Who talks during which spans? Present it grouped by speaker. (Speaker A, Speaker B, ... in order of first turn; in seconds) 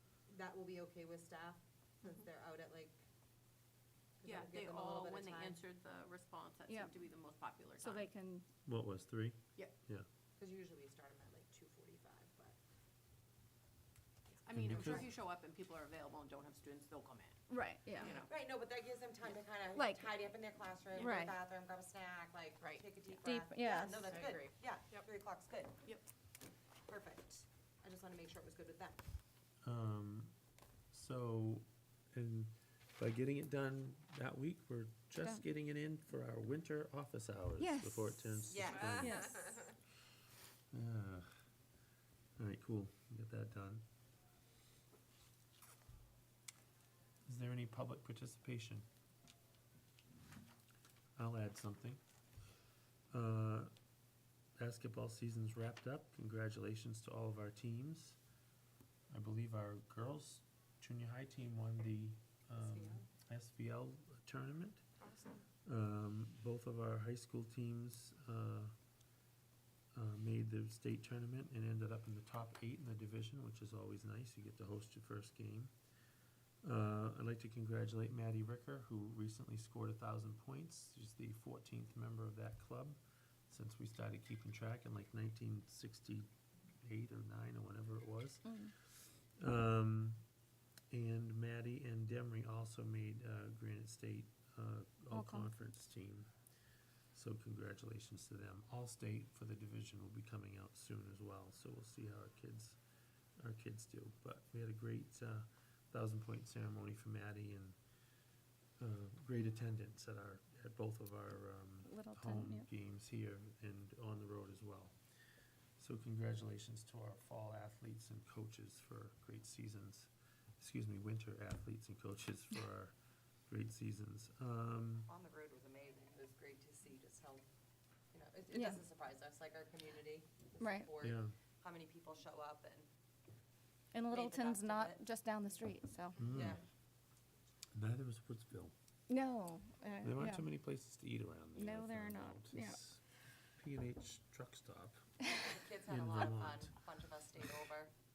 Speaker A: 0.3-3.0, 4.2-5.6, 10.4-12.6, 18.2-25.8, 26.9-29.0, 38.4-39.6, 62.6-63.1, 125.1-127.4, 128.1-132.9, 134.1-135.0, 136.2-136.6, 145.4-147.9
Speaker B: 4.2-8.1, 14.4-17.4, 17.9-18.3, 22.6-22.9, 24.1-25.1, 38.6-39.7
Speaker C: 7.8-8.5, 17.5-18.2, 19.8-20.1, 21.0-21.4, 23.2-24.2, 37.6-39.3, 88.4-88.7, 95.1-95.5, 111.8-112.7, 128.5-128.8, 130.6-130.9, 133.9-136.2, 139.1-140.4, 141.5-142.8
Speaker D: 8.7-10.1, 14.5-15.1, 29.6-30.3, 30.9-39.1, 40.7-41.3, 42.4-43.8, 47.2-48.9, 51.1-52.0, 53.1-53.7, 54.6-58.2, 59.1-64.8, 65.7-68.7, 69.9-75.7, 76.6-83.0, 83.5-86.3, 86.8-90.2, 90.9-96.3, 97.1-102.8, 103.4-107.8, 108.8-114.9, 115.8-122.9, 123.5-125.1, 131.0-131.3, 136.2-136.6, 137.7-138.7, 140.0-143.0, 143.6-145.0, 145.8-146.7